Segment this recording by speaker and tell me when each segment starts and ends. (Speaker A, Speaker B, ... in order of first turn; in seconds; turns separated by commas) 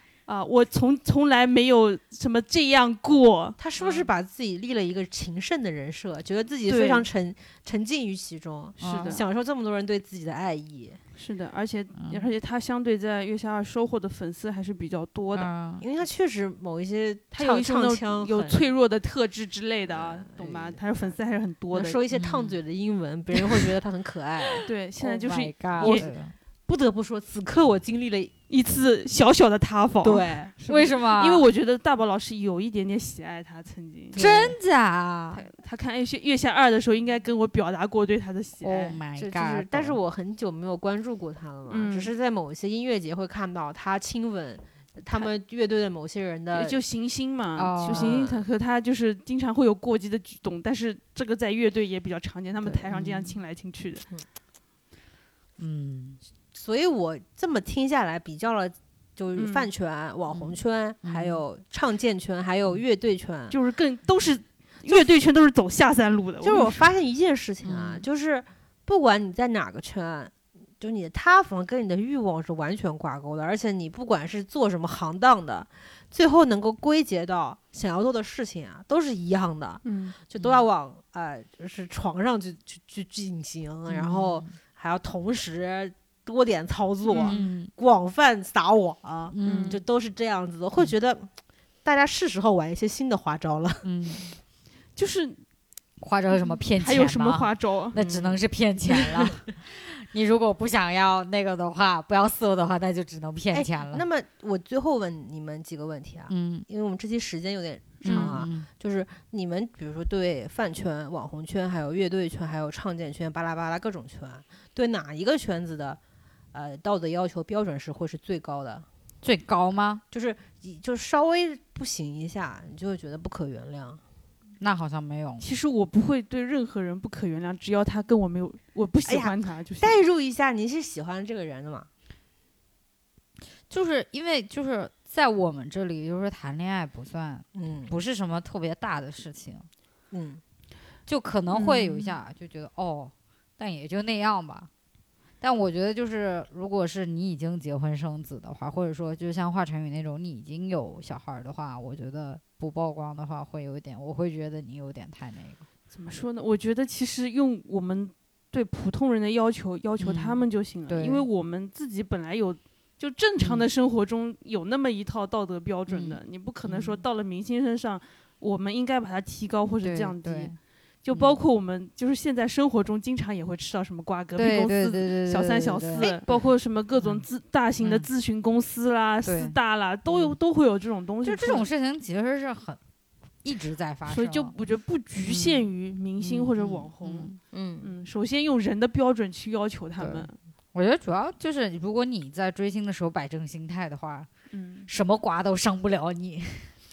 Speaker A: 0.3-3.6, Speaker B: 3.6-11.0, Speaker A: 6.7-7.1, Speaker C: 8.8-9.2, Speaker A: 8.8-9.2, Speaker A: 11.2-15.5, Speaker C: 12.0-12.3, Speaker C: 15.3-15.8, Speaker B: 15.8-18.6, Speaker A: 17.3-22.0, Speaker B: 19.9-20.8, Speaker B: 21.7-24.6, Speaker C: 22.1-22.6, Speaker A: 24.6-26.1, Speaker C: 25.0-26.4, Speaker B: 25.8-26.1, Speaker B: 26.7-28.3, Speaker A: 28.5-34.2, Speaker B: 30.0-30.5, Speaker C: 30.7-31.5, Speaker B: 34.1-34.6, Speaker C: 34.1-35.4, Speaker A: 35.3-39.0, Speaker C: 38.6-40.0, Speaker B: 39.2-46.8, Speaker A: 41.7-42.1, Speaker A: 46.5-54.1, Speaker C: 47.6-48.2, Speaker B: 47.9-48.4, Speaker C: 52.9-53.4, Speaker C: 55.6-56.2, Speaker B: 56.5-63.6, Speaker A: 59.4-59.7, Speaker C: 60.3-61.4, Speaker A: 63.5-66.9, Speaker B: 66.4-91.3, Speaker C: 67.6-68.0, Speaker A: 79.8-80.2, Speaker C: 83.9-84.5, Speaker A: 87.1-87.4, Speaker C: 87.2-87.7, Speaker C: 89.3-89.8, Speaker A: 89.4-89.8, Speaker B: 91.8-93.9, Speaker C: 93.8-94.3, Speaker A: 95.0-95.4, Speaker C: 96.0-104.0, Speaker A: 96.4-98.4, Speaker B: 103.5-116.0, Speaker C: 106.3-106.7, Speaker A: 108.0-108.4, Speaker C: 108.0-108.7, Speaker B: 116.5-118.9, Speaker C: 119.2-120.0, Speaker B: 120.1-124.0, Speaker C: 124.6-125.5, Speaker A: 125.4-130.0, Speaker B: 129.1-131.9, Speaker C: 133.7-139.7, Speaker B: 137.6-137.9, Speaker B: 140.1-140.4, Speaker C: 141.1-144.7, Speaker A: 141.5-142.2, Speaker C: 145.4-155.6, Speaker A: 155.9-181.7, Speaker C: 160.0-161.2, Speaker C: 163.4-163.7, Speaker C: 165.9-167.0, Speaker C: 169.8-170.6, Speaker C: 171.1-171.4, Speaker C: 174.4-176.2, Speaker B: 176.0-176.4, Speaker C: 177.0-177.2, Speaker C: 179.2-180.4, Speaker C: 181.2-182.8, Speaker C: 183.4-184.6, Speaker A: 184.1-190.3, Speaker C: 185.2-185.7, Speaker C: 186.2-187.4, Speaker B: 187.5-187.9, Speaker C: 190.0-194.3, Speaker A: 194.5-194.9, Speaker C: 194.9-196.7